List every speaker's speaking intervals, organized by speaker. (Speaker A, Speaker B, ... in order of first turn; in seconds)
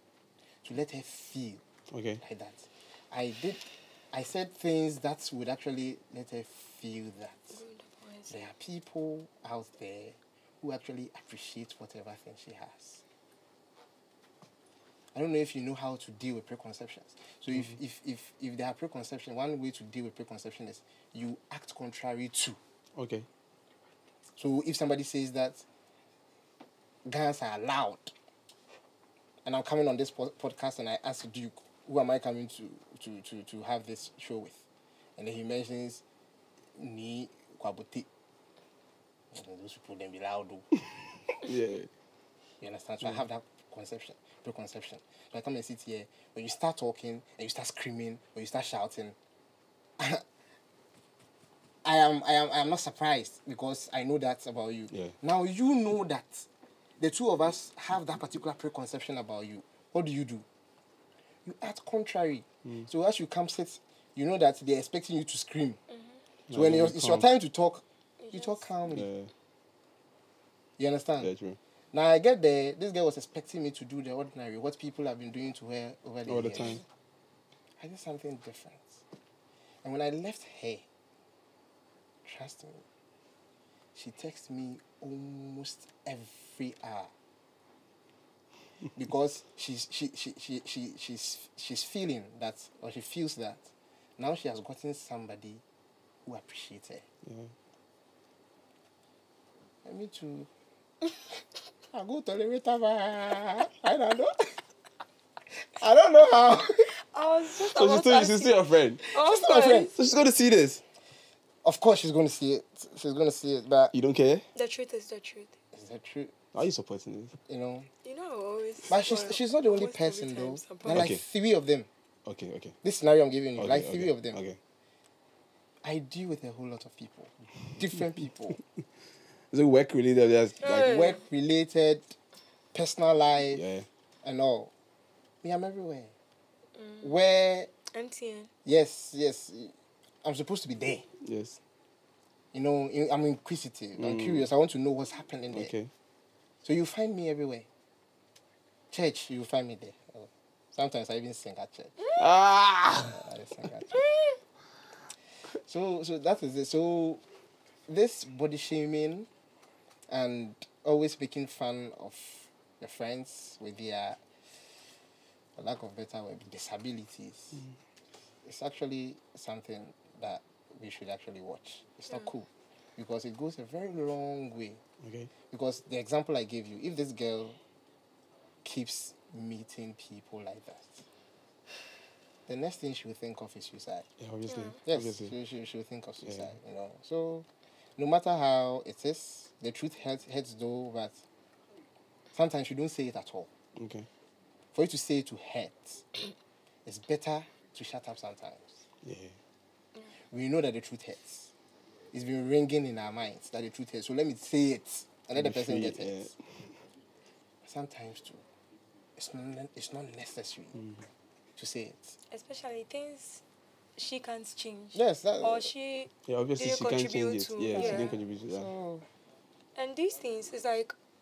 Speaker A: 0.6-1.6, 2.2-7.6, 8.3-13.0, 15.1-22.6, 24.4-25.6, 27.1-28.1, 29.4-34.6, 35.2-36.0, 36.7-38.1, 39.3-40.6, 42.6-49.1, 50.0-50.2, 51.8-56.5, 57.0-60.5, 61.4-65.8, 66.5-69.1, 70.8-71.3, 71.9-76.8, 77.8-79.0, 79.8-80.8, 82.2-82.8, 83.9-87.1, 89.0-95.6, 96.2-97.0, 99.8-100.5, 101.9-104.6, 105.7-106.9, 109.1-109.9, 111.6-113.9, 115.7-116.4, 117.5-117.9, 118.9-121.9, 122.8-124.4, 125.8-128.6, 130.6-132.2, 132.7-133.6, 134.2-134.7, 135.4-136.1, 137.0-137.7, 138.6-141.1, 142.5-145.7, 146.6-147.7, 148.9-152.1, 153.0-154.0, 155.6-157.2, 157.9-159.3, 160.1-164.2, 165.6-167.6, 168.4-174.8, 175.5-177.6, 178.6-181.1, 182.5-184.1, 184.8-191.2, 192.3-193.5, 194.7-196.0, 196.8-198.8, 200.3-201.5, 202.1-206.3, 207.6-208.4, 209.2-210.8, 211.6-212.2, 214.9-215.7, 217.7-219.1
Speaker B: 1.9-2.2, 22.9-23.3, 41.3-41.9, 66.5-67.3, 68.9-69.3, 71.2-71.6, 76.3-76.8, 97.2-97.5, 107.6-109.0, 109.9-110.8, 113.9-114.5, 116.5-117.3, 120.9-121.2, 122.2-122.8, 123.6-124.6, 129.5-131.0, 133.5-133.8, 141.2-141.6, 144.0-144.4, 145.5-145.9, 152.1-153.2, 175.0-175.3, 184.2-185.3, 186.2-186.5, 193.8-194.1, 199.0-199.3, 205.3-206.7, 216.2-218.7
Speaker C: 7.5-8.3, 65.9-66.2, 68.2-68.7, 106.9-109.9, 114.5-115.5, 118.0-121.1, 130.6-131.2, 136.8-137.2, 137.9-138.5, 184.5-184.8, 212.3-213.4, 214.0-218.1, 219.8-220.9